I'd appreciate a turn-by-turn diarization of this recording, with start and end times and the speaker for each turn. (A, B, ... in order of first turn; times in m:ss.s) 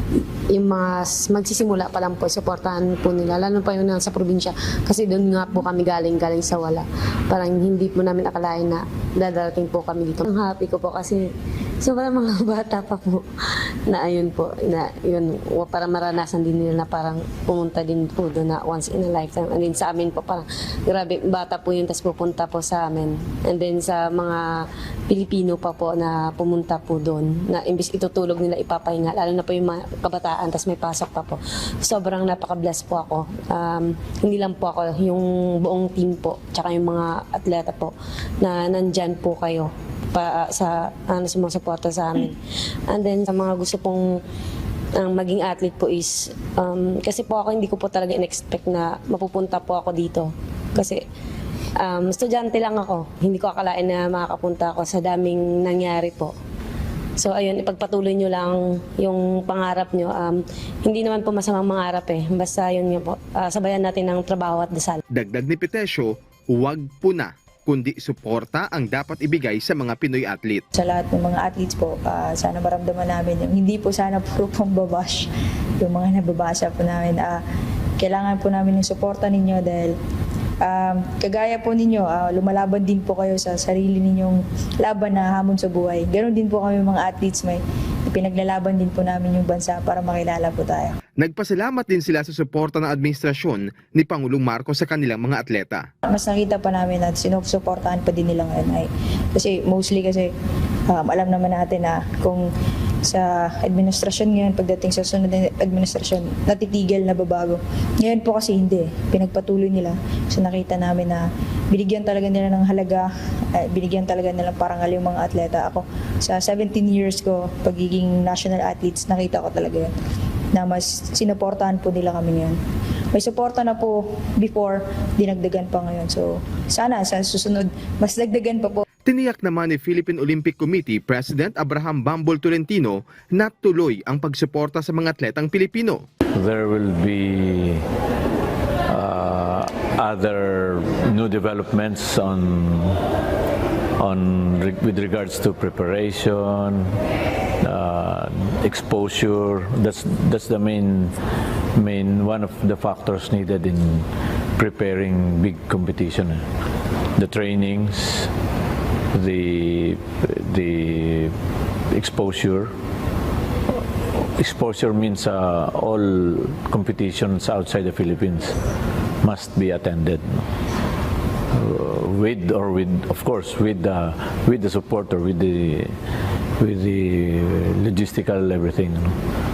0:00.5-0:42.4 A
0:42.9-0:44.2 A
0:45.0-0:51.0 A
0:51.8-0:56.3 A
0:57.2-1:05.0 A
1:05.1-1:10.6 B
1:10.8-1:15.3 C
1:15.8-1:17.4 C
1:18.0-1:20.0 C
1:20.6-1:31.0 C
1:31.2-1:35.9 B
1:36.1-1:40.3 C
1:40.9-1:42.5 C
1:43.1-1:59.9 C
2:00.6-2:02.6 C
2:03.1-2:08.8 C
2:09.0-2:16.0 B
2:16.3-2:17.8 D
2:18.9-2:23.0 D
2:24.0-2:26.9 D
2:27.6-2:31.1 D
2:31.8-2:34.0 D
2:34.6-2:36.4 D
2:37.2-2:38.3 D
2:39.1-2:41.3 D
2:41.9-2:42.7 D
2:44.4-2:48.6 D
2:49.2-2:50.4 D
2:51.5-2:55.9 D
2:56.6-2:59.1 D